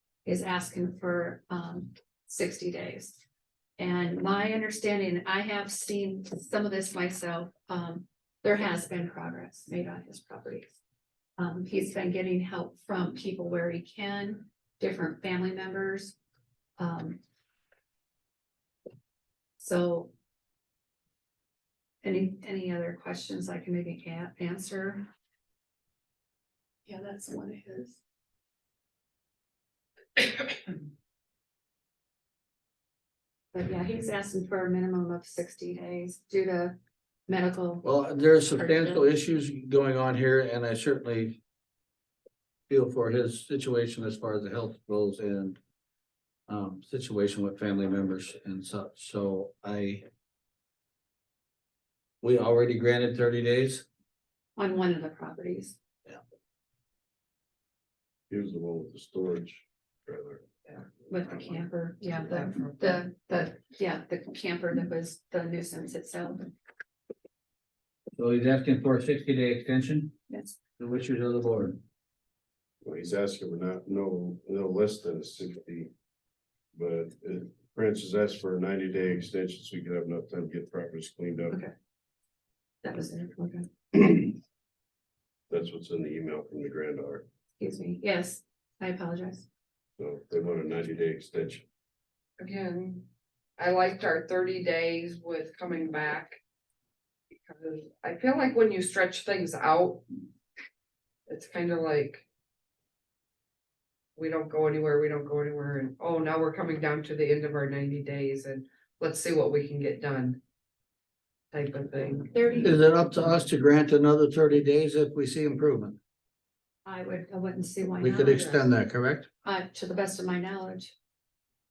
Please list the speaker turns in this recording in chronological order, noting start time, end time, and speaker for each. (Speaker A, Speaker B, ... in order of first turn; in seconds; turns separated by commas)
Speaker A: 0.2-3.2, Speaker A: 3.8-10.8, Speaker A: 11.4-16.2, Speaker A: 16.8-17.2, Speaker A: 19.6-20.1, Speaker A: 22.0-25.1, Speaker A: 26.9-28.0, Speaker A: 33.5-36.8, Speaker A: 37.3-39.1, Speaker B: 37.8-41.4, Speaker B: 42.7-45.6, Speaker B: 46.5-50.1, Speaker B: 52.2-53.9, Speaker A: 54.6-55.8, Speaker C: 58.3-60.5, Speaker A: 61.1-66.5, Speaker D: 62.1-63.0, Speaker B: 68.2-70.1, Speaker A: 70.3-70.6, Speaker B: 70.8-71.8, Speaker C: 72.8-75.9, Speaker C: 76.7-81.6, Speaker A: 82.8-84.3, Speaker C: 85.5-87.2, Speaker A: 87.6-89.5, Speaker C: 90.0-91.7, Speaker D: 92.4-93.0, Speaker D: 93.6-96.4, Speaker D: 97.4-100.0, Speaker D: 101.3-102.2, Speaker D: 104.2-110.4, Speaker D: 111.5-112.7, Speaker A: 112.3-112.8, Speaker B: 112.6-116.0, Speaker A: 116.8-118.5, Speaker B: 118.0-119.3, Speaker D: 118.3-118.7, Speaker A: 119.4-120.9